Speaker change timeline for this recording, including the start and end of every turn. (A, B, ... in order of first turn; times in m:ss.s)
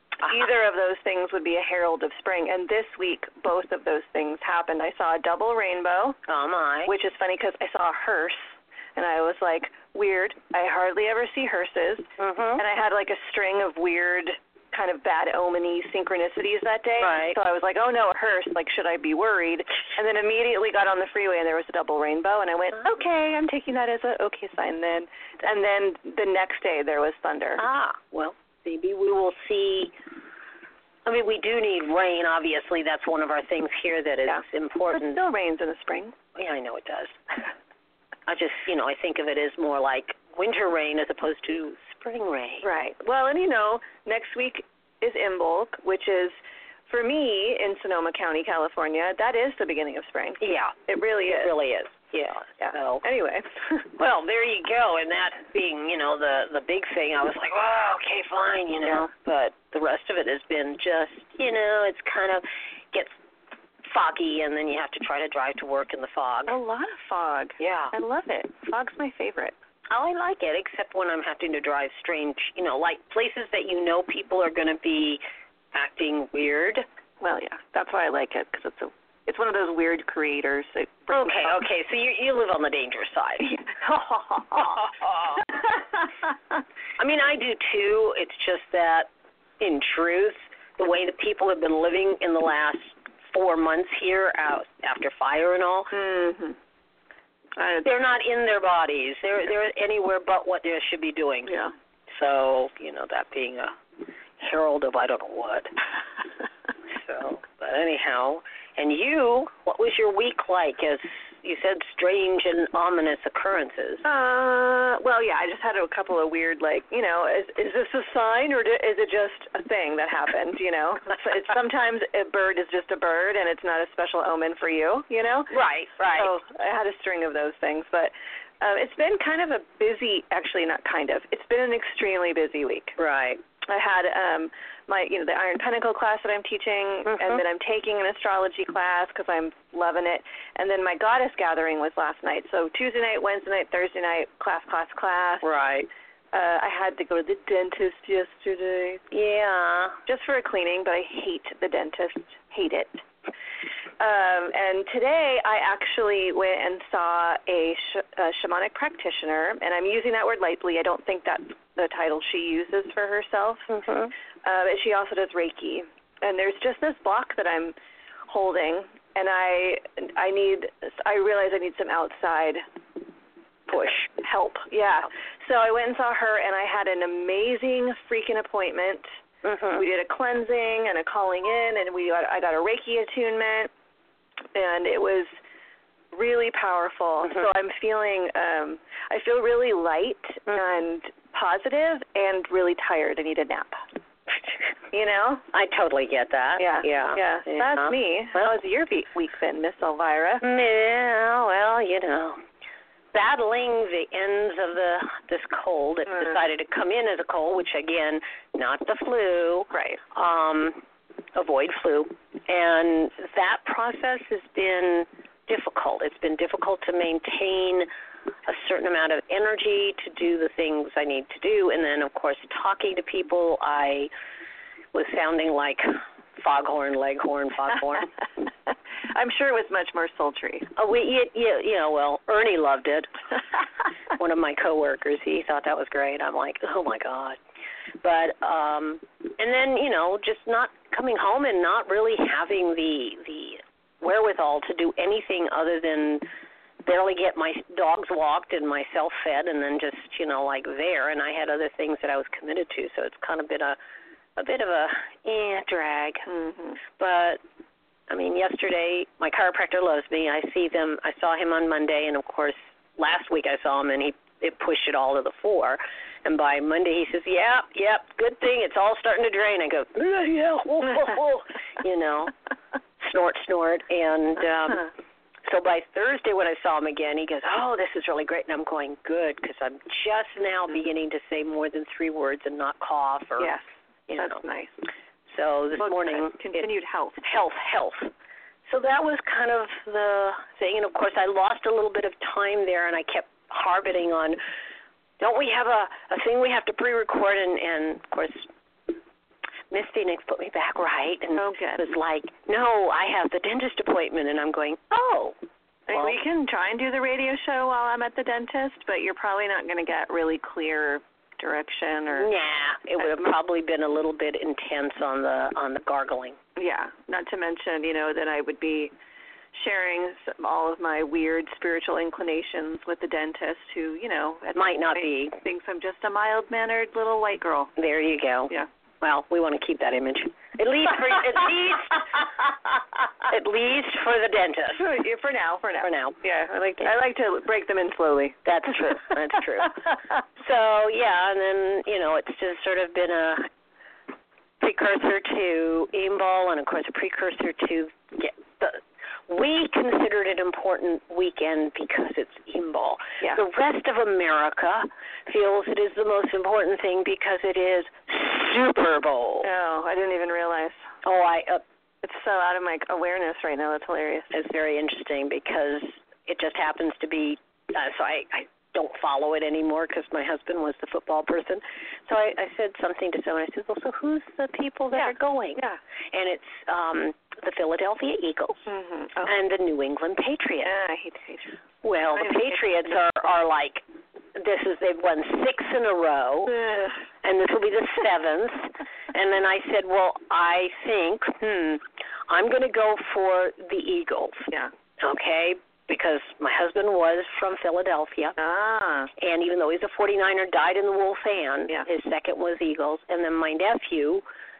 0:00.2-0:06.2 A
0:06.3-0:06.9 B
0:06.9-0:27.6 A
0:12.2-0:12.6 B
0:17.0-0:17.4 B
0:27.6-0:29.9 B
0:31.0-0:35.2 B
0:34.9-0:36.2 A
0:36.3-0:37.4 B
0:38.3-0:42.7 B
0:42.6-0:46.4 A
0:46.9-0:51.5 A
0:50.4-0:53.0 B
0:52.6-0:53.8 A
0:54.0-1:03.2 B
1:03.8-1:06.5 B
1:06.5-1:09.5 A
1:07.6-1:07.9 B
1:09.9-1:15.2 B
1:15.7-1:16.8 B
1:17.2-1:21.6 A
1:21.1-1:23.6 B
1:23.5-1:24.8 A
1:24.7-1:25.4 B
1:27.0-1:29.1 B
1:29.6-1:35.9 B
1:35.9-1:36.6 A
1:37.6-1:37.8 A
1:37.8-1:41.5 B
1:42.1-1:43.8 B
1:44.4-1:45.7 B
1:46.9-1:54.0 B
1:54.0-2:13.0 A
2:05.5-2:06.3 B
2:13.0-2:13.4 B
2:13.7-2:25.4 A
2:17.1-2:17.4 B
2:25.4-2:25.9 B
2:26.3-2:29.0 A
2:29.1-2:30.0 B
2:30.0-2:33.0 A
2:34.0-2:43.7 A
2:43.7-2:44.1 B
2:44.4-2:47.7 A
2:48.3-2:52.6 A
2:53.7-2:54.1 B
2:54.1-2:59.1 A
2:59.4-2:59.8 B
2:59.7-3:03.7 A
3:04.5-3:05.3 A
3:06.1-3:13.8 A
3:14.9-3:15.4 A
3:15.5-3:18.4 B
3:16.6-3:20.4 A
3:20.4-3:22.4 B
3:23.1-3:30.8 B
3:29.7-3:30.0 A
3:31.3-3:37.9 B
3:38.4-3:44.1 B
3:44.9-3:48.1 B
3:49.1-3:50.7 A
3:50.7-3:53.2 B
3:54.1-3:57.4 B
3:58.0-4:06.3 B
4:06.8-4:13.8 B
4:14.4-4:16.3 B
4:16.3-4:16.8 A
4:17.0-4:17.4 B
4:18.1-4:32.3 B
4:33.0-4:34.9 B
4:35.4-4:43.5 B
4:44.1-4:44.4 B
4:44.1-4:44.7 A
4:45.3-4:46.7 B
4:45.8-4:47.2 A
4:47.2-4:48.1 B
4:48.7-4:54.4 B
4:55.2-4:58.5 B
4:59.7-5:05.4 B
5:01.4-5:01.8 A
5:05.9-5:12.3 A
5:05.9-5:06.2 B
5:12.1-5:16.4 B
5:16.6-5:18.9 A
5:19.5-5:27.7 A
5:24.5-5:25.4 B
5:27.8-5:32.2 B
5:33.2-5:34.8 B
5:34.8-5:38.4 A
5:35.8-5:36.2 B
5:38.4-5:43.5 B
5:44.6-5:59.5 B
5:59.4-6:00.8 A
6:01.0-6:01.6 B
6:02.0-6:04.3 A
6:04.3-6:18.7 B
6:14.9-6:15.8 A
6:18.7-6:19.3 A
6:19.2-6:20.7 B
6:20.6-6:21.6 A
6:21.8-6:26.6 B
6:22.2-6:22.6 A
6:26.5-6:26.9 A
6:27.2-6:38.4 B
6:38.4-6:39.1 A
6:39.2-6:44.2 B